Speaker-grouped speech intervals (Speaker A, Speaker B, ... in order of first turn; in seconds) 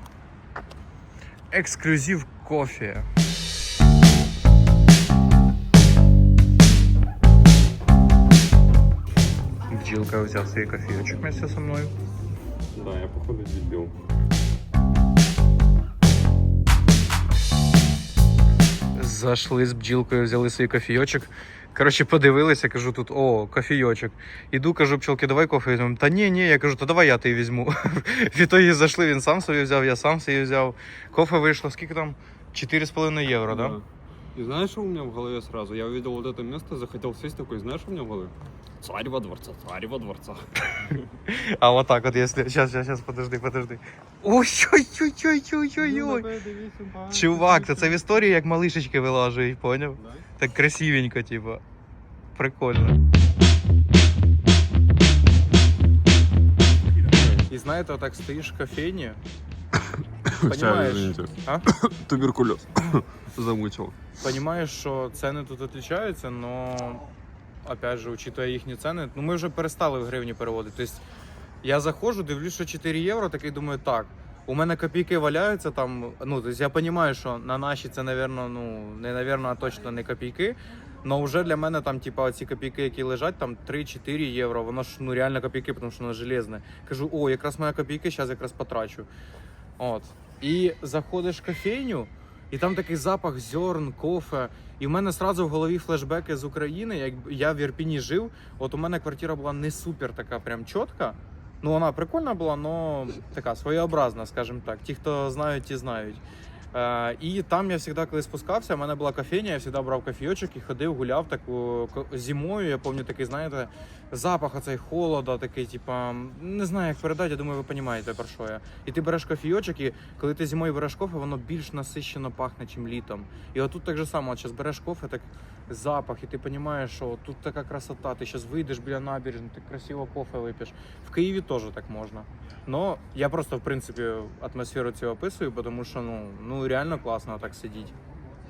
Speaker A: 1.5-3.1, 9.7-11.9, 19.0-33.8, 41.3-46.3, 47.1-51.6, 52.4-53.0, 57.5-59.2, 60.5-61.6, 64.2-67.0, 67.6-71.0, 71.6-89.1, 89.8-106.2, 106.7-137.9
Speaker B: 12.7-13.9, 33.5-33.8, 34.4-41.0, 45.8-48.0, 50.0-50.2, 57.1-57.4, 60.3-64.0